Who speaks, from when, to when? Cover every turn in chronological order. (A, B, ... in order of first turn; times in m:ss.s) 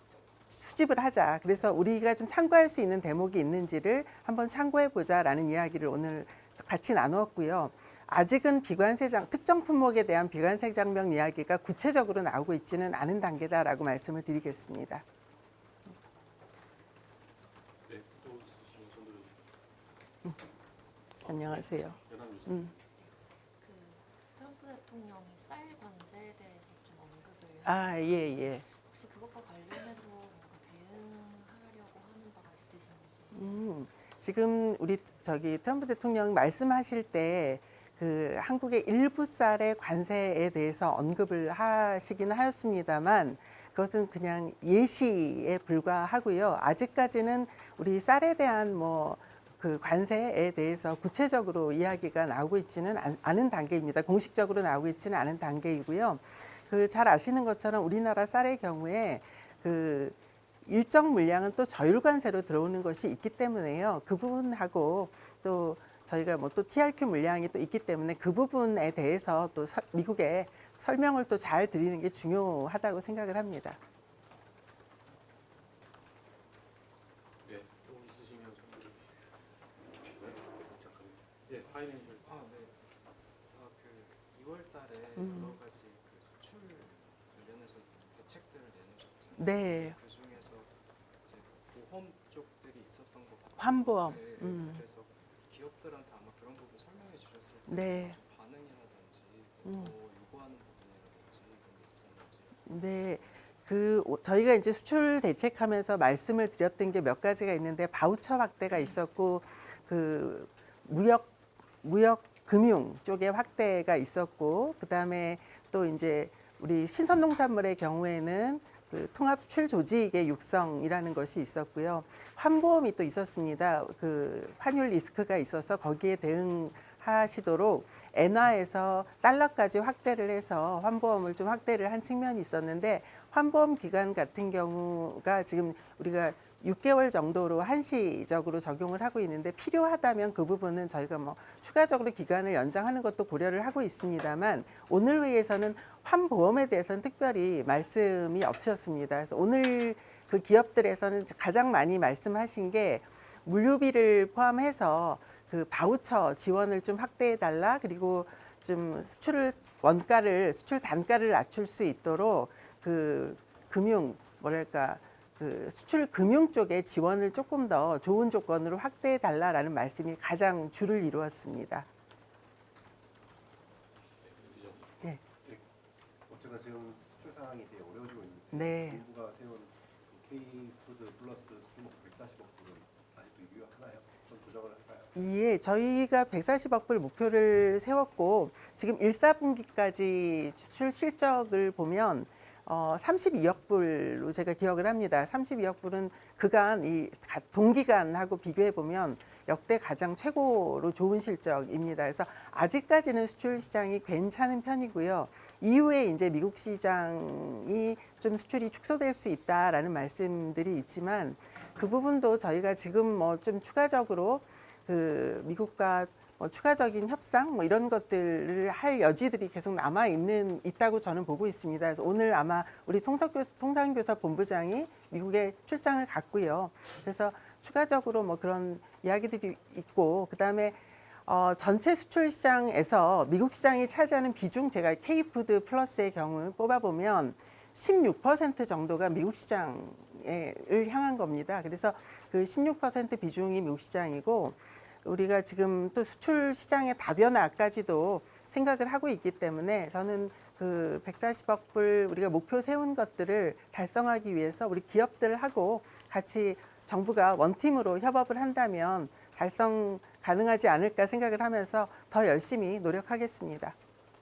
0:00.5-0:15.0 A
0:17.9-0:19.4 B
0:21.2-0:22.8 B
0:21.2-0:22.7 A
0:23.0-0:33.5 C
0:27.6-0:28.7 A
0:33.3-1:13.8 A
1:17.5-1:19.2 B
1:20.1-1:22.2 B
1:21.6-1:22.9 D
1:23.5-1:30.7 D
1:25.2-1:25.5 A
1:29.4-1:30.0 A
1:31.2-1:42.6 D
1:33.6-1:34.8 A
1:37.7-1:38.2 A
1:42.7-1:51.3 A
1:51.8-2:51.9 A
2:54.2-2:54.9 B
2:56.3-3:05.2 E
2:58.5-2:59.0 A
3:05.2-4:23.8 A